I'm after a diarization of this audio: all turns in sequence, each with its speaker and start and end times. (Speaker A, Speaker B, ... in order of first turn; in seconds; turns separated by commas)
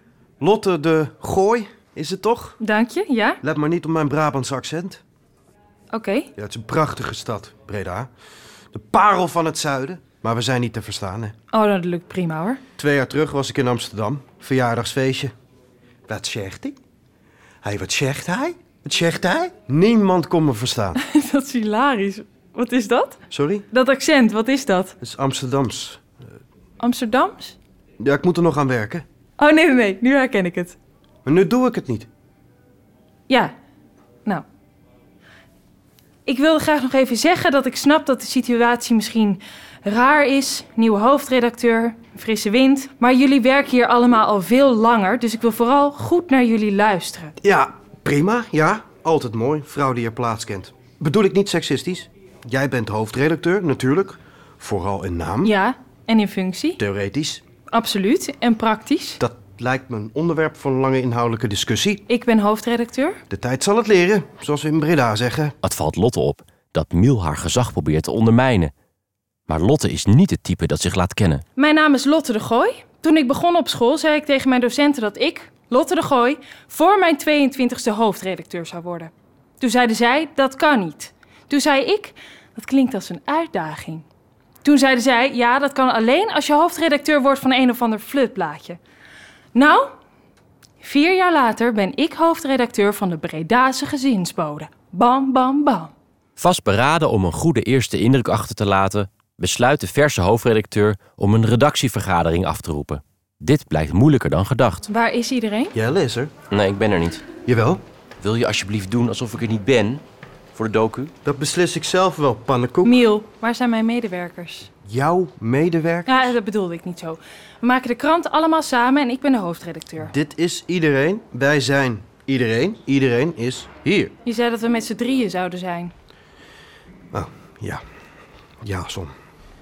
Speaker A: 0.4-2.6, Speaker B: 2.6-3.4, Speaker A: 3.4-5.0, Speaker B: 5.9-6.3, Speaker A: 6.4-8.1, Speaker A: 8.7-11.3, Speaker B: 11.5-12.6, Speaker A: 12.8-15.3, Speaker A: 16.1-16.8, Speaker A: 17.6-21.0, Speaker B: 21.0-23.2, Speaker A: 23.3-23.7, Speaker B: 23.7-24.9, Speaker A: 25.0-26.0, Speaker B: 26.8-27.6, Speaker A: 28.0-29.1, Speaker B: 29.4-30.8, Speaker A: 31.2-32.1, Speaker B: 33.3-33.5, Speaker B: 36.3-47.4, Speaker A: 47.4-55.5, Speaker B: 55.4-56.8, Speaker A: 56.8-57.4, Speaker B: 57.7-59.2, Speaker A: 59.2-62.1, Speaker B: 62.1-63.2, Speaker A: 63.3-65.5, Speaker C: 65.7-68.7, Speaker C: 69.5-71.4, Speaker B: 71.6-84.0, Speaker B: 84.6-88.8, Speaker B: 89.5-89.9, Speaker B: 90.8-95.9, Speaker C: 96.4-104.9, Speaker B: 104.9-105.8, Speaker A: 105.8-106.3, Speaker C: 106.5-107.2, Speaker A: 107.5-107.8, Speaker C: 108.2-110.0, Speaker C: 110.5-111.1, Speaker A: 111.2-113.0, Speaker B: 112.8-114.7, Speaker A: 114.9-116.3, Speaker B: 116.1-120.1, Speaker A: 120.1-124.1, Speaker B: 124.2-125.9, Speaker A: 127.1-127.8, Speaker A: 128.6-129.1